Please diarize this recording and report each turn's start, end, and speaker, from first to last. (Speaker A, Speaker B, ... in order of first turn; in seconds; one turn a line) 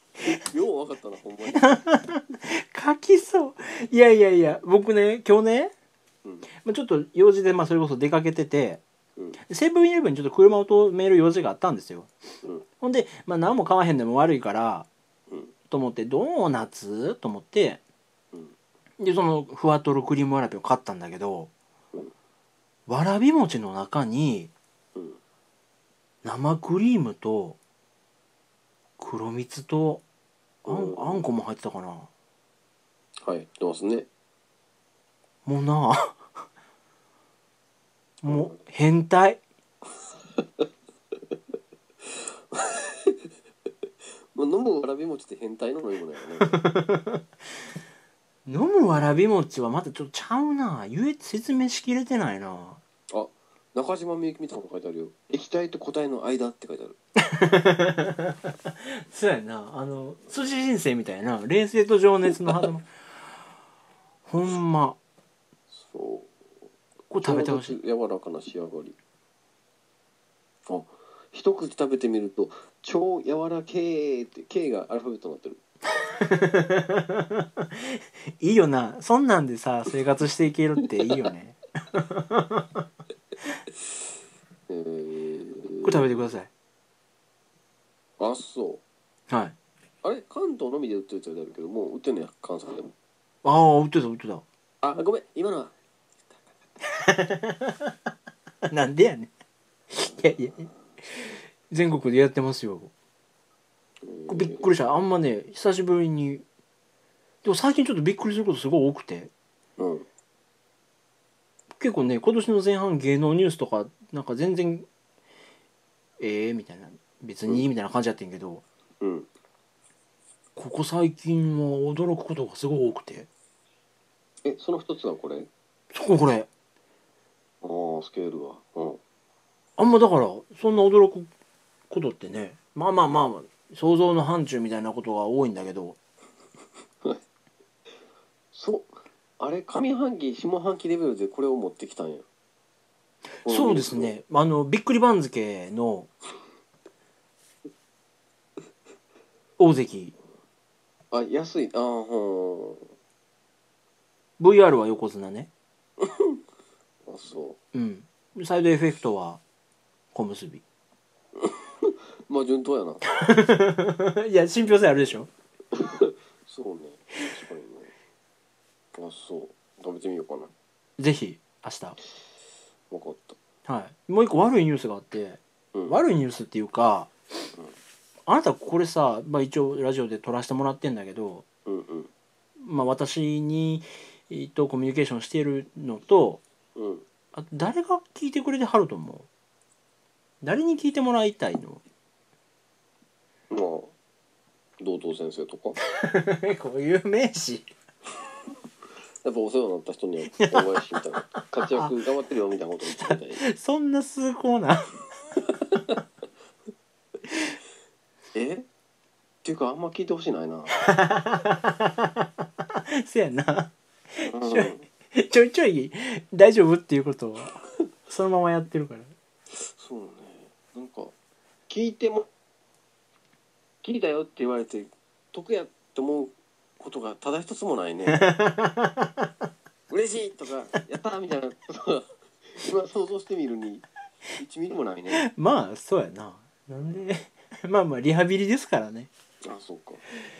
Speaker A: 0.2-1.6
Speaker B: 1.5-5.7
Speaker B: 6.6-8.8
Speaker B: 9.5-12.1
Speaker B: 12.8-14.9
Speaker A: 15.3-15.5
Speaker B: 15.7-17.8
Speaker B: 19.0-21.5
Speaker B: 22.9-24.5
Speaker B: 26.2-27.6
Speaker B: 29.0-30.0
Speaker B: 30.6-32.1
Speaker A: 30.6-31.3
Speaker A: 33.2-34.1
Speaker B: 35.4-36.2
Speaker B: 38.2-39.4
Speaker A: 38.3-38.6
Speaker A: 42.1-43.2
Speaker A: 44.3-46.6
Speaker B: 46.4-47.2
Speaker B: 48.5-52.8
Speaker A: 53.1-57.0
Speaker B: 57.2-62.9
Speaker B: 64.3-65.0
Speaker A: 65.7-66.3
Speaker B: 67.1-67.8
Speaker A: 67.2-69.0
Speaker A: 70.7-75.6
Speaker B: 76.2-82.8
Speaker A: 84.7-86.1
Speaker B: 85.8-86.5
Speaker A: 88.2-88.8
Speaker B: 89.3-89.5
Speaker A: 90.0-92.9
Speaker B: 93.4-94.4
Speaker A: 94.8-95.7
Speaker B: 96.9-97.9
Speaker B: 98.7-99.3
Speaker B: 99.9-102.9
Speaker A: 104.0-104.7
Speaker B: 104.3-106.4
Speaker B: 107.4-109.3
Speaker A: 109.8-110.0
Speaker B: 111.8-114.8
Speaker B: 116.2-118.6
Speaker A: 119.0-119.3
Speaker B: 120.5-123.3
Speaker A: 124.4-125.5
Speaker B: 125.9-126.5
Speaker A: 127.6-129.0
Speaker B: 129.8-131.3
Speaker B: 131.9-136.0
Speaker A: 138.5-142.2
Speaker A: 143.4-144.1
Speaker B: 143.4-146.1
Speaker B: 149.6-150.1
Speaker A: 151.1-152.9
Speaker B: 154.4-155.5
Speaker A: 156.0-156.4
Speaker A: 157.1-157.6
Speaker B: 157.7-159.4
Speaker B: 160.1-160.6
Speaker A: 161.3-163.1
Speaker B: 163.1-165.3
Speaker A: 165.7-167.9
Speaker A: 168.9-170.5
Speaker B: 171.0-172.0
Speaker A: 172.9-173.4
Speaker B: 173.7-177.1
Speaker A: 175.7-176.0
Speaker B: 178.3-181.4
Speaker A: 181.7-182.1
Speaker B: 182.6-186.4
Speaker A: 186.7-187.1
Speaker B: 187.3-189.3
Speaker B: 190.4-191.8
Speaker A: 193.5-193.9
Speaker A: 194.8-195.8
Speaker B: 195.9-197.7
Speaker A: 199.2-203.4
Speaker B: 200.4-200.8
Speaker B: 201.4-201.9
Speaker B: 203.0-204.9
Speaker A: 205.5-206.0
Speaker A: 208.3-208.7
Speaker A: 209.4-210.8
Speaker B: 210.8-219.1
Speaker A: 214.2-214.9
Speaker A: 219.5-221.1
Speaker A: 221.7-222.3
Speaker A: 223.8-228.2
Speaker B: 228.1-229.3
Speaker A: 229.9-235.2
Speaker B: 235.2-239.1
Speaker A: 239.4-240.0